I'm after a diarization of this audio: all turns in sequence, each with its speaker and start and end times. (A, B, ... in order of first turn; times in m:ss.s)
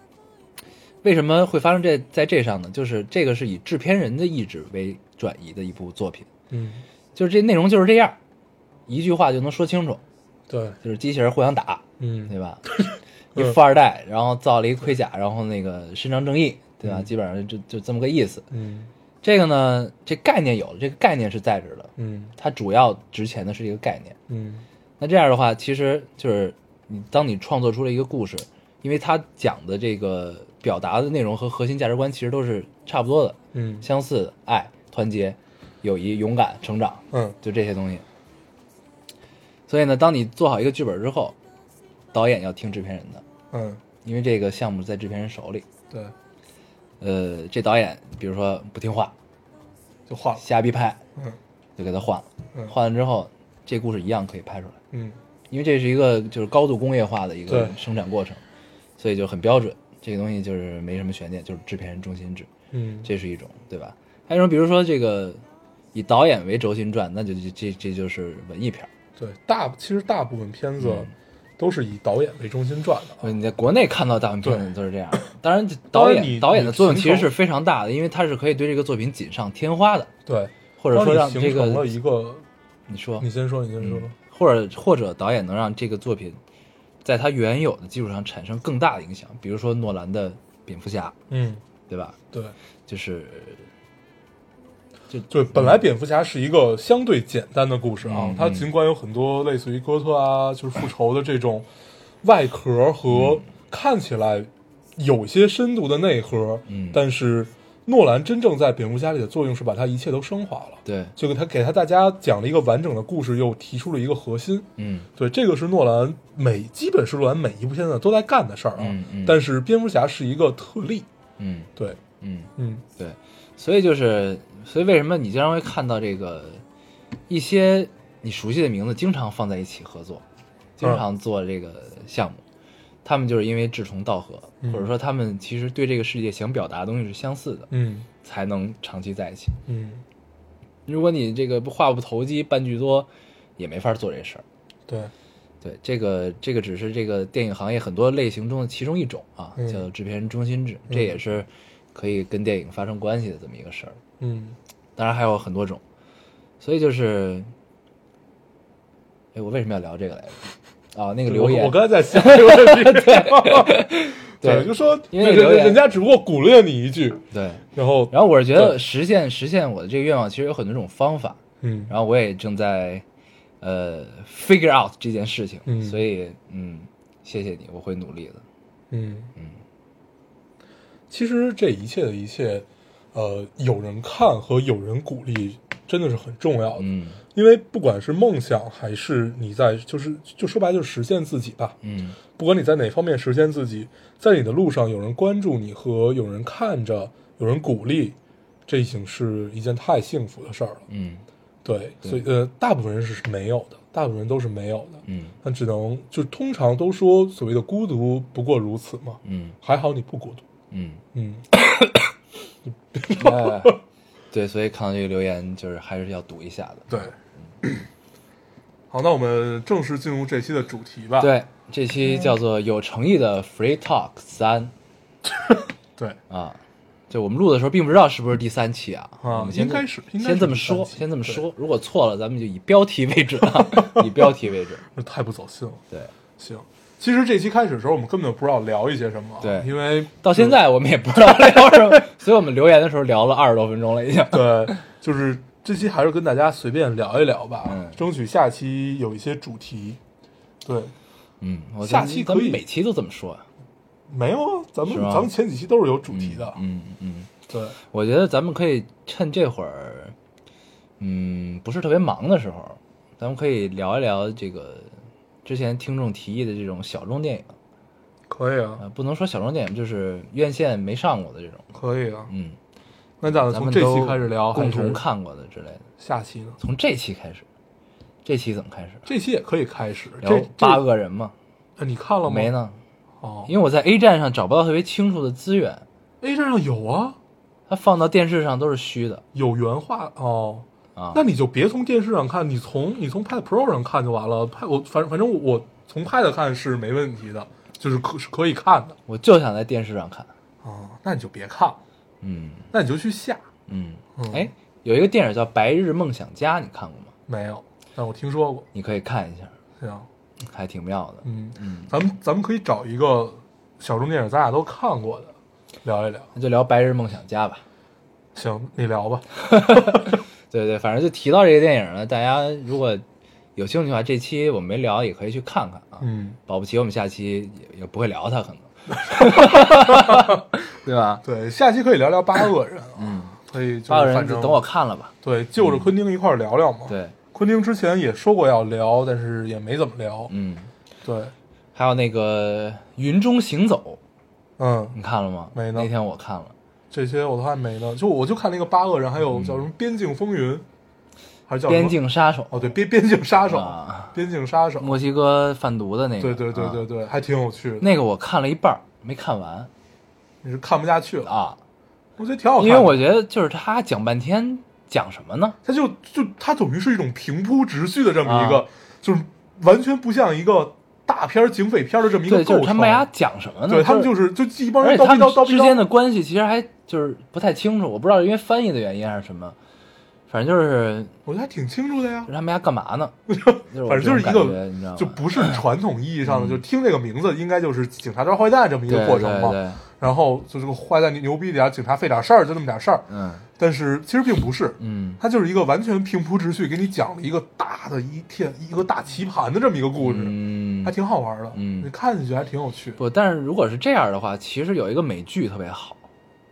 0:01.0-0:06.3 A
0:06.5-0:06.8 B
0:07.1-0:08.2 A
0:08.9-0:10.0 A
0:10.5-0:10.8 B
0:10.8-0:12.6 A
0:12.0-0:13.6 B
0:13.3-0:18.4 A
0:18.5-0:18.9 B
0:19.2-0:24.2 A
0:22.0-0:22.3 B
0:24.3-0:24.6 B
0:25.0-0:38.0 A
0:33.5-0:33.8 B
0:37.1-0:37.4 B
0:39.7-0:41.4 A
0:42.1-0:43.2 A
0:43.5-0:43.8 B
0:44.0-0:45.6 A
0:47.0-0:49.1 A
0:50.1-0:50.4 B
0:50.4-0:51.0 A
0:51.8-0:54.8 A
0:54.9-0:55.2 B
0:55.5-0:58.4 A
0:57.5-0:57.7 B
0:59.0-1:02.5 A
1:02.7-1:03.1 B
1:03.0-1:05.4 A
1:05.9-1:08.9 A
1:09.2-1:13.3 B
1:10.8-1:11.1 A
1:13.2-1:20.1 A
1:15.9-1:17.3 B
1:20.2-1:22.4 B
1:20.8-1:21.9 A
1:22.9-1:23.3 A
1:23.2-1:24.1 B
1:23.8-1:26.4 A
1:27.0-1:31.2 A
1:31.3-1:31.6 B
1:31.9-1:32.2 A
1:32.9-1:33.7 A
1:35.1-1:35.8 A
1:35.3-1:41.7 B
1:38.0-1:38.7 A
1:42.2-2:01.1 B
1:43.1-1:43.4 A
1:46.7-1:47.0 A
1:50.8-1:51.1 A
1:54.8-1:55.1 A
1:58.8-1:59.4 A
2:01.4-2:06.6 A
2:02.6-2:02.8 B
2:07.3-2:10.2 A
2:10.8-2:12.4 A
2:13.0-2:17.7 A
2:14.6-2:14.9 B
2:17.7-2:18.1 B
2:18.2-2:19.6 A
2:19.7-2:20.0 B
2:20.9-2:24.4 A
2:25.6-2:34.0 A
2:29.6-2:29.8 B
2:30.9-2:31.2 B
2:34.2-2:34.6 B
2:35.0-2:35.8 A
2:36.6-2:37.5 A
2:39.3-2:45.8 A
2:41.3-2:43.9 B
2:44.4-2:47.2 B
2:47.3-2:53.0 A
2:47.7-2:48.8 B
2:51.6-2:51.9 B
2:53.6-2:58.4 A
2:55.6-2:56.0 B
2:58.9-2:59.3 B
3:01.1-3:11.8 B
3:06.8-3:07.2 A
3:11.8-3:12.2 A
3:12.3-3:18.2 B
3:18.7-3:20.8 B
3:20.9-3:21.2 A
3:21.6-3:30.4 B
3:25.0-3:25.4 A
3:29.2-3:29.6 A
3:30.7-3:31.0 A
3:31.1-3:31.5 B
3:32.9-3:33.8 B
3:33.1-3:33.8 A
3:34.3-3:37.1 A
3:36.9-3:37.8 B
3:38.9-3:41.3 B
3:41.2-3:44.7 A
3:45.4-3:46.2 B
3:46.3-3:46.6 A
3:47.1-3:54.8 A
3:49.2-3:51.4 B
3:53.4-3:54.2 B
3:54.9-3:55.8 B
3:56.4-4:00.6 B
3:59.4-4:04.8 A
4:01.4-4:01.8 B
4:04.3-4:10.0 B
4:07.6-4:08.0 A
4:10.6-4:10.9 B
4:11.4-4:13.4 A
4:11.8-4:12.6 B
4:14.1-4:16.6 B
4:14.9-4:15.3 A
4:16.1-4:17.3 A
4:17.5-4:17.8 B
4:17.9-4:20.1 A
4:21.0-4:24.9 A
4:25.4-4:27.5 A
4:28.3-4:28.8 B
4:28.8-4:31.7 A
4:31.7-4:32.3 B
4:32.3-4:32.6 A
4:33.2-4:35.0 B
4:33.4-4:35.8 A
4:36.0-4:36.6 B
4:36.6-4:37.4 A
4:38.2-4:39.0 A
4:39.0-4:40.8 B
4:40.2-4:41.3 A
4:41.8-4:42.5 B
4:42.2-4:42.8 A
4:43.2-4:43.5 B
4:43.4-4:45.8 A
4:46.2-4:47.2 B
4:47.7-4:49.2 A
4:49.3-4:59.0 B
4:51.0-4:51.2 A
4:59.1-5:00.3 A
5:00.6-5:01.8 B
5:02.2-5:02.7 A
5:02.7-5:03.4 B
5:03.7-5:07.1 A
5:04.2-5:04.5 B
5:07.3-5:08.7 B
5:08.7-5:09.5 A
5:09.8-5:10.1 B
5:10.4-5:11.9 A
5:11.2-5:16.3 B
5:16.3-5:17.6 A
5:18.3-5:20.1 B
5:19.4-5:23.0 A
5:23.6-5:31.2 A
5:26.0-5:26.4 B
5:29.0-5:30.4 B
5:31.2-5:34.6 B
5:33.0-5:35.9 A
5:35.2-5:40.3 B
5:36.9-5:37.1 A
5:40.3-5:40.7 A
5:41.0-5:41.3 B
5:41.7-5:44.0 A
5:44.6-5:45.0 B
5:44.9-5:46.5 A
5:45.5-5:45.9 B
5:46.9-5:50.6 B
5:49.3-5:49.6 A
5:51.5-5:52.0 B
5:51.7-5:52.7 A
5:52.5-5:55.0 B
5:53.4-5:54.1 A
5:54.8-5:56.8 A
5:56.2-5:57.9 B
5:57.8-5:59.7 A
6:00.4-6:01.3 B
6:01.2-6:01.6 A
6:02.2-6:03.0 B
6:02.6-6:05.6 A
6:05.6-6:13.1 B
6:08.2-6:08.6 A
6:12.2-6:14.1 A
6:13.7-6:15.9 B
6:14.8-6:19.6 A
6:20.3-6:21.1 A
6:21.2-6:22.3 B
6:22.3-6:25.6 A
6:23.3-6:33.0 B
6:26.2-6:26.6 A
6:28.9-6:29.8 A
6:33.1-6:33.4 A
6:33.6-6:43.0 B
6:34.8-6:35.2 A
6:40.0-6:40.9 A
6:41.5-6:41.9 A
6:43.0-6:46.0 A